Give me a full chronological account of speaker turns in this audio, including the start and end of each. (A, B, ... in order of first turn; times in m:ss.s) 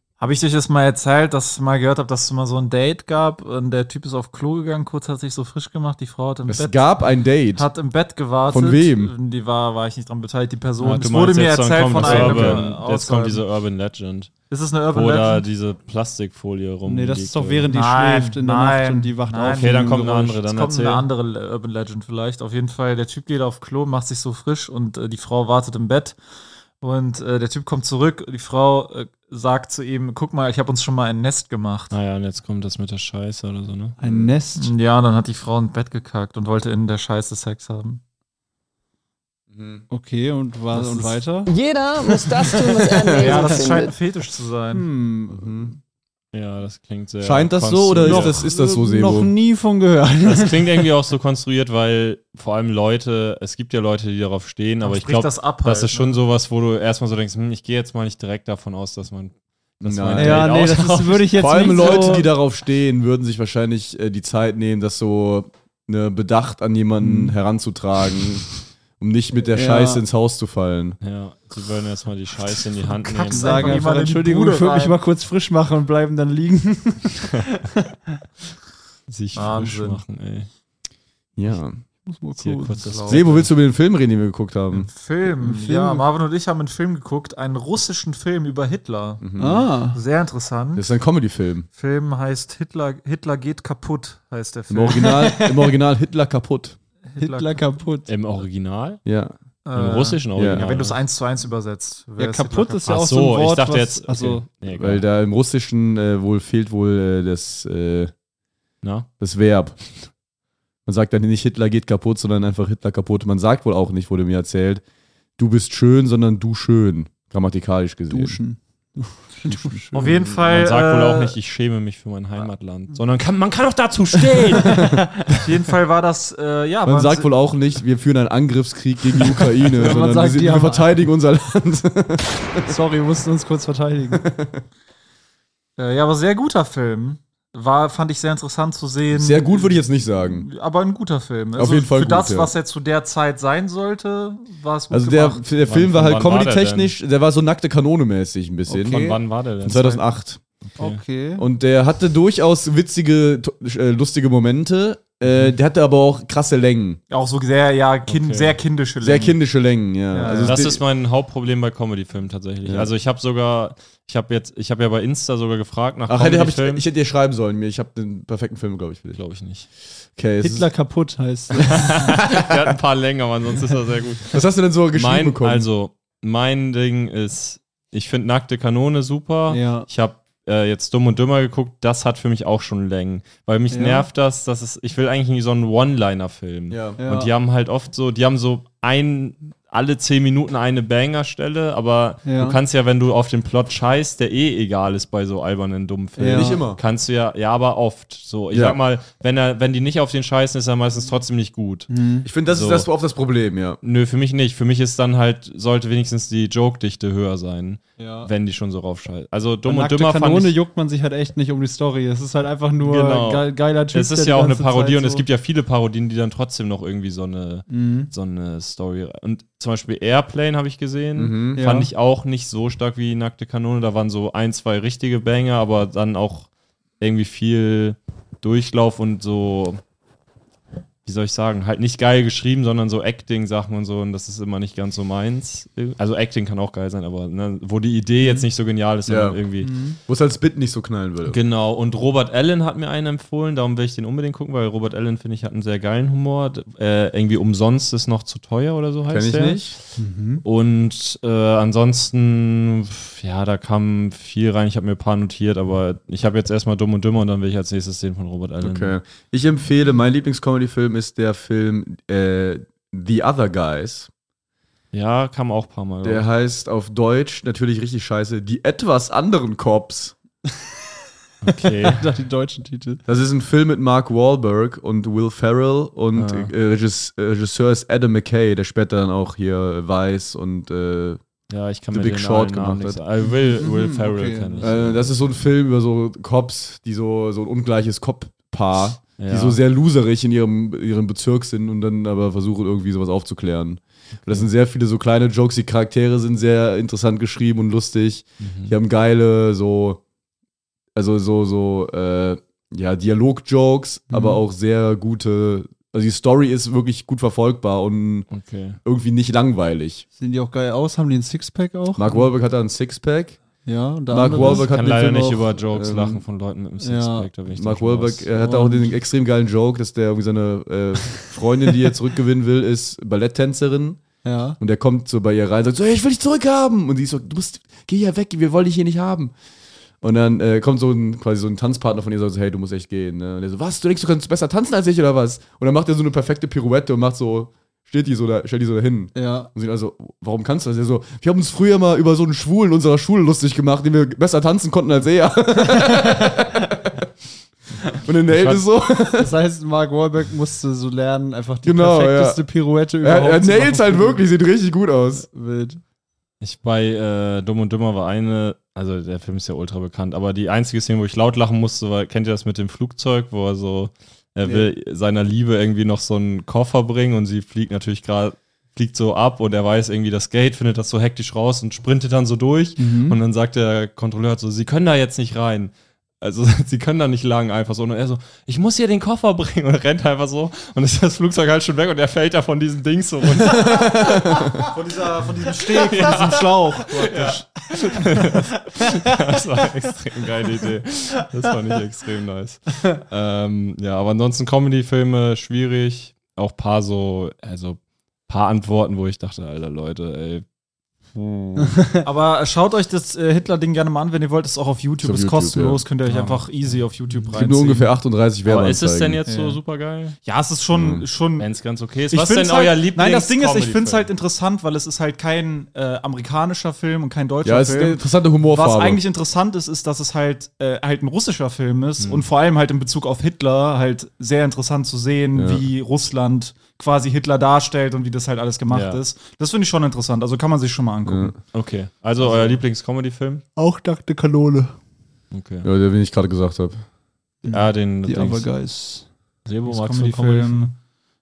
0:00.2-0:06.9 A
0:06.5-0:07.7 B
0:07.5-0:13.4 A
0:08.5-0:09.1 B
0:10.8-0:14.3 C
0:12.0-0:12.5 D
0:12.2-0:12.6 B
0:14.5-0:15.4 A
0:14.9-0:17.7 C
0:16.8-0:20.3 D
0:17.7-0:26.2 A
0:19.5-0:21.0 C
0:26.8-0:32.0 A
0:31.9-0:34.0 C
0:34.0-0:34.7 D
0:34.0-0:34.3 B
0:34.6-0:38.0 A
0:39.5-0:39.9 B
0:39.9-0:41.5 D
0:40.8-0:41.0 B
0:41.5-0:43.9 E
0:43.2-0:44.8 A
0:44.7-0:45.8 D
0:45.3-0:45.7 B
0:46.3-0:48.4 C
0:47.2-0:49.3 B
0:48.0-0:50.9 D
0:50.2-1:02.2 C
0:54.8-0:56.2 A
0:59.8-1:00.6 B
1:00.2-1:02.3 D
1:01.3-1:11.0 B
1:07.0-1:07.4 D
1:09.5-1:10.0 D
1:11.0-1:13.8 C
1:13.1-1:15.0 A
1:13.2-1:17.4 D
1:19.1-1:20.5 C
1:19.4-1:20.0 A
1:21.4-1:21.8 B
1:22.0-1:22.8 D
1:22.4-1:23.5 C
1:22.8-1:23.2 A
1:23.1-1:24.9 B
1:24.7-1:29.2 A
1:25.4-1:26.0 D
1:29.2-1:29.7 B
1:29.4-1:30.0 D
1:29.9-1:30.9 A
1:30.8-1:31.7 B
1:31.8-1:35.4 A
1:34.7-1:36.8 B
1:35.2-1:35.5 D
1:37.1-1:37.6 A
1:37.2-1:38.1 D
1:38.1-1:39.0 C
1:39.0-1:39.3 B
1:39.6-1:42.8 A
1:39.8-1:41.0 C
1:40.4-1:40.6 B
1:42.2-1:44.5 D
1:42.8-1:45.0 C
1:44.7-1:48.1 B
1:48.8-1:49.1 C
1:49.2-1:49.8 B
1:50.9-1:54.8 B
1:55.4-1:58.4 B
1:58.1-2:00.1 D
1:59.5-2:00.4 B
1:59.9-2:01.4 A
2:00.2-2:05.0 C
2:05.3-2:07.3 A
2:06.8-2:12.7 B
2:09.8-2:10.9 D
2:12.7-2:14.2 D
2:14.1-2:14.6 B
2:15.8-2:25.4 A
2:19.1-2:20.5 B
2:21.6-2:22.5 B
2:24.9-2:30.4 B
2:25.7-2:26.9 C
2:28.7-2:29.2 D
2:28.7-2:30.1 C
2:30.6-2:31.0 C
2:30.8-2:31.5 D
2:31.4-2:37.0 B
2:37.1-2:39.4 A
2:38.1-2:38.6 C
2:39.0-2:40.8 B
2:40.1-2:40.6 A
2:40.4-2:46.8 C
2:42.6-2:42.9 B
2:46.1-2:49.2 B
2:49.2-2:49.7 C
2:50.2-2:50.7 B
2:50.4-2:52.0 D
2:51.7-3:21.9 C
2:54.3-2:55.7 B
2:59.5-2:59.9 D
3:03.7-3:04.1 D
3:06.7-3:07.0 B
3:07.0-3:07.3 D
3:12.2-3:12.6 D
3:16.2-3:16.6 D
3:16.2-3:16.8 B
3:18.5-3:18.8 B
3:21.9-3:22.3 D
3:22.2-3:23.8 B
3:22.5-3:22.9 C
3:23.8-3:30.6 C
3:28.0-3:28.3 D
3:29.6-3:35.2 D
3:32.8-3:46.5 C
3:37.7-3:38.1 D
3:41.2-3:41.6 B
3:41.6-3:41.9 D
3:47.0-3:49.8 C
3:51.0-3:59.7 C
3:59.1-3:59.4 B
3:59.6-4:00.0 D
4:00.1-4:01.4 B
4:01.2-4:09.8 C
4:09.1-4:09.8 B
4:10.0-4:10.4 D
4:10.4-4:19.0 C
4:18.6-4:24.1 B
4:24.9-4:26.2 C
4:26.0-4:30.2 B
4:31.4-4:32.0 C
4:31.8-4:33.0 D
4:33.1-4:41.2 B
4:36.2-4:36.5 C
4:41.5-4:45.1 C
4:41.9-4:43.0 B
4:43.3-4:44.7 D
4:44.6-5:00.0 B
4:49.2-4:49.6 C
4:58.4-4:58.8 C
5:01.0-5:08.3 B
5:04.1-5:04.4 D
5:08.3-5:08.8 C
5:08.8-5:10.0 B
5:10.2-5:12.3 D
5:12.0-5:13.4 B
5:13.6-5:14.7 D
5:14.1-5:16.2 B
5:14.4-5:18.3 C
5:16.8-5:17.3 D
5:17.5-5:24.0 B
5:18.4-5:19.0 D
5:24.2-5:24.6 D
5:24.6-5:29.3 B
5:30.0-5:46.9 B
5:39.2-5:39.5 D
5:45.8-5:46.3 D
5:47.9-5:49.4 B
5:48.3-5:48.6 C
5:49.2-5:54.2 D
5:51.6-5:52.5 B
5:53.0-5:55.3 B
5:55.2-5:55.8 D
5:56.4-6:24.5 C
6:12.8-6:13.2 D
6:23.7-6:24.5 B
6:24.6-6:27.4 A
6:25.7-6:40.4 C
6:27.0-6:29.0 D
6:41.1-6:41.9 C
6:42.0-6:47.9 A
6:45.0-6:45.8 B
6:46.1-6:47.3 C
6:47.3-6:49.2 B
6:48.4-6:50.2 C
6:49.3-6:49.6 A
6:50.2-6:51.5 A
6:50.7-6:51.0 B
6:51.4-6:54.1 C
6:52.1-7:11.3 A
6:57.4-6:59.0 B
7:02.0-7:02.3 C
7:05.4-7:05.6 B
7:08.7-7:09.0 C
7:11.1-7:11.4 B
7:11.5-7:13.4 C
7:12.2-7:12.6 A
7:13.6-7:14.8 D
7:15.3-7:15.7 C
7:15.6-7:16.8 B
7:17.4-7:19.1 D
7:17.5-7:18.5 C
7:19.5-7:20.7 C
7:19.7-7:20.7 A